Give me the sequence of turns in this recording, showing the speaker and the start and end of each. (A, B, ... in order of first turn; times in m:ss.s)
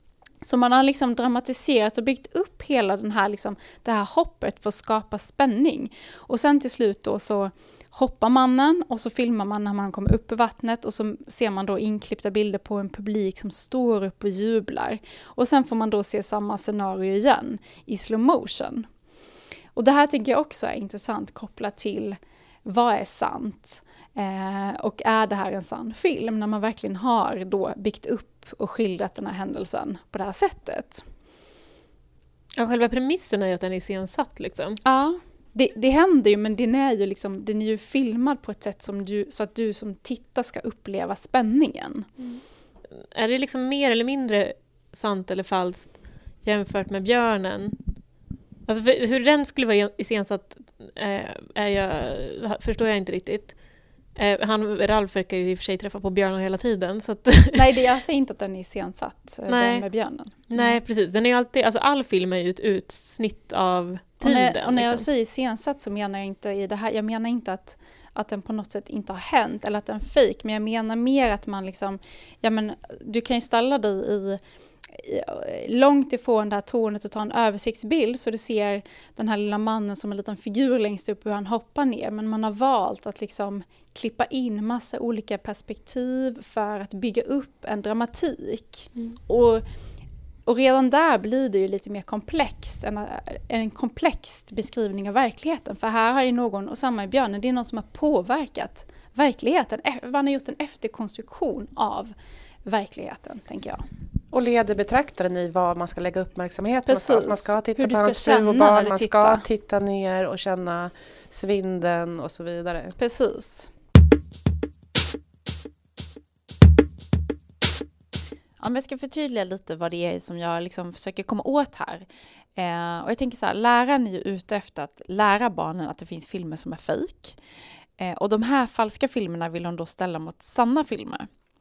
0:00.4-0:18.9 A
0:19.8-0:31.0 A
0:32.6-0:34.8 B
0:34.8-0:42.1 A
0:42.2-0:47.8 B
0:48.7-0:53.6 B
0:54.2-0:57.7 B
0:57.5-1:00.8 A
0:59.5-0:59.9 B
1:00.5-1:05.1 B
1:04.2-1:29.6 A
1:30.5-1:42.1 A
1:42.6-1:43.8 A
1:44.3-1:53.0 C
1:46.9-1:49.4 A
1:53.0-1:53.7 A
1:58.6-2:07.4 A
2:08.0-2:11.3 A